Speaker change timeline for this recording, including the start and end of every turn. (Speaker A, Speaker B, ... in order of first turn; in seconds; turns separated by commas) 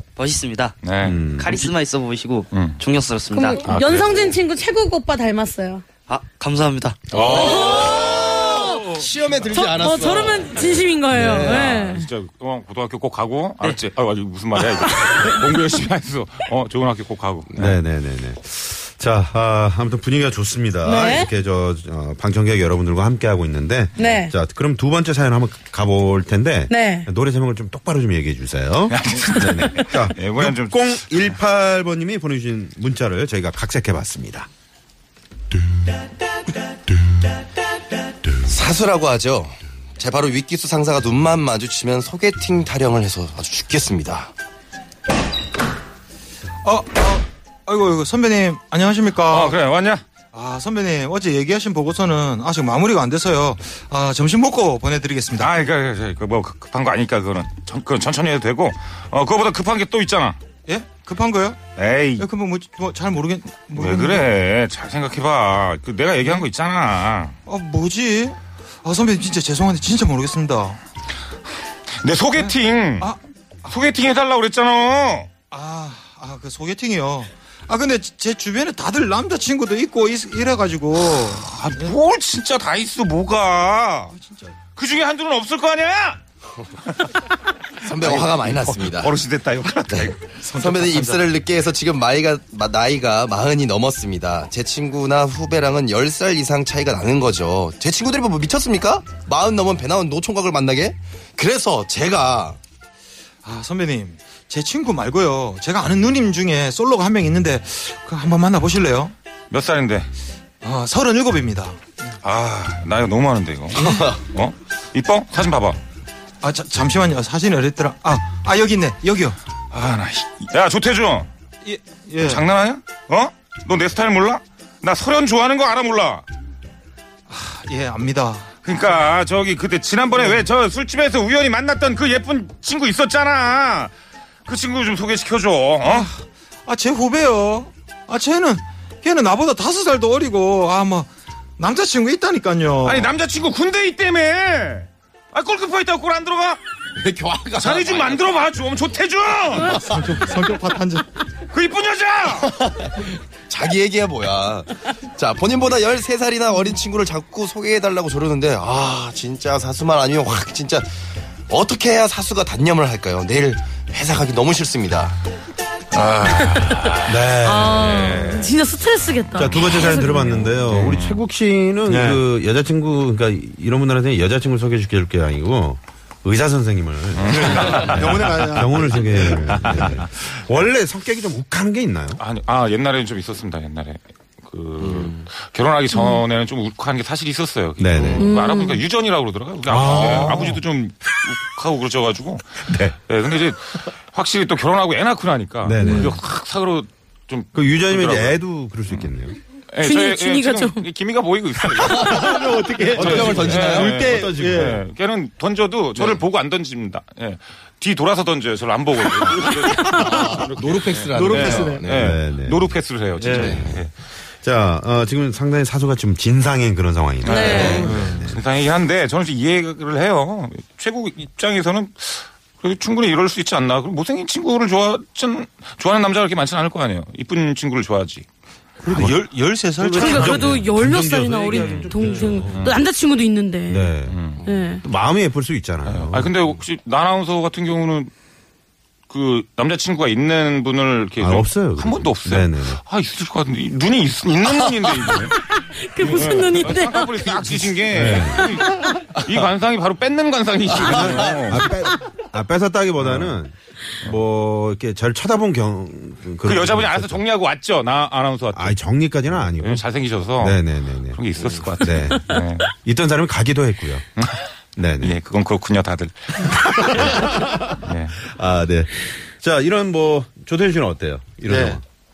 Speaker A: 0.2-0.8, Speaker B: 0.8-1.7, Speaker C: 1.0-1.6, Speaker A: 1.4-3.6, Speaker B: 2.5-2.8, Speaker D: 3.3-5.8, Speaker B: 3.6-4.2, Speaker A: 6.1-7.1, Speaker B: 7.1-8.1, Speaker E: 7.1-11.8, Speaker D: 7.2-12.1, Speaker B: 11.2-17.6, Speaker C: 17.6-34.5, Speaker D: 20.9-21.3, Speaker D: 24.0-24.3, Speaker D: 26.7-27.1, Speaker B: 28.9-31.0, Speaker E: 38.4-44.3, Speaker F: 46.6-49.6, Speaker B: 49.3-50.0, Speaker F: 50.3-55.5, Speaker B: 55.4-60.4, Speaker F: 60.7-61.6, Speaker B: 61.8-62.3, Speaker F: 62.2-64.3, Speaker B: 63.7-67.3, Speaker F: 67.5-70.8, Speaker B: 72.0-73.1, Speaker F: 72.4-73.2, Speaker B: 73.7-75.3, Speaker F: 75.5-82.0, Speaker B: 81.2-84.1, Speaker F: 84.1-84.6, Speaker B: 84.8-86.2, Speaker E: 87.8-89.1, Speaker B: 88.0-90.2, Speaker E: 89.9-102.6, Speaker F: 90.4-91.3, Speaker F: 103.4-109.1, Speaker B: 109.5-110.1, Speaker F: 110.6-111.8, Speaker B: 112.2-115.8, Speaker E: 113.9-114.2, Speaker F: 116.4-119.4, Speaker B: 119.7-121.3, Speaker F: 121.6-122.5, Speaker B: 122.2-126.2, Speaker F: 127.3-128.5, Speaker B: 128.7-133.9, Speaker B: 134.5-136.1, Speaker F: 135.8-143.1, Speaker B: 142.8-146.6, Speaker E: 146.9-148.2, Speaker B: 147.6-149.8, Speaker F: 149.8-151.1, Speaker B: 151.5-152.5, Speaker E: 152.4-160.9, Speaker E: 161.5-165.2, Speaker B: 165.9-167.2, Speaker C: 167.0-168.2, Speaker D: 167.4-170.4, Speaker B: 167.7-168.5, Speaker C: 169.3-182.2, Speaker B: 170.7-171.2, Speaker F: 171.9-172.2, Speaker B: 177.2-178.6, Speaker F: 177.3-179.5, Speaker B: 179.2-180.1, Speaker B: 182.2-198.4, Speaker E: 184.8-185.2, Speaker D: 185.9-186.2, Speaker C: 187.8-188.3, Speaker D: 188.2-188.8, Speaker C: 189.7-190.6, Speaker C: 192.7-192.9, Speaker C: 195.6-196.2, Speaker D: 195.8-196.1, Speaker C: 197.5-199.4, Speaker B: 199.7-213.9, Speaker D: 199.8-200.8, Speaker F: 201.8-204.8, Speaker E: 201.9-202.3, Speaker E: 202.9-204.0, Speaker C: 203.0-204.8, Speaker E: 209.9-212.2, Speaker F: 211.1-211.9, Speaker C: 211.9-212.8, Speaker F: 213.2-213.6, Speaker E: 213.3-213.7, Speaker C: 213.4-213.8, Speaker C: 214.4-218.4, Speaker B: 217.2-228.3, Speaker D: 217.3-217.9, Speaker F: 217.8-218.2, Speaker F: 228.8-230.5, Speaker C: 228.9-229.2, Speaker C: 229.8-232.7, Speaker D: 230.0-233.9, Speaker B: 231.6-231.9, Speaker B: 232.5-232.8, Speaker C: 233.7-234.2, Speaker B: 234.1-234.4, Speaker D: 234.4-234.8, Speaker C: 234.8-236.5, Speaker B: 235.9-238.1, Speaker B: 239.1-245.4, Speaker C: 241.2-242.8, Speaker D: 245.6-247.4, Speaker B: 246.0-251.7, Speaker C: 247.9-248.6, Speaker C: 250.7-257.2, Speaker E: 250.8-251.4, Speaker B: 253.0-253.3, Speaker B: 256.4-258.8, Speaker C: 258.5-259.8, Speaker B: 259.4-260.6, Speaker C: 260.4-261.2, Speaker B: 261.1-262.7, Speaker C: 261.8-264.1, Speaker B: 264.2-264.4, Speaker C: 264.8-265.2, Speaker B: 265.0-268.2, Speaker C: 266.9-267.3, Speaker C: 268.2-271.8, Speaker F: 271.5-271.8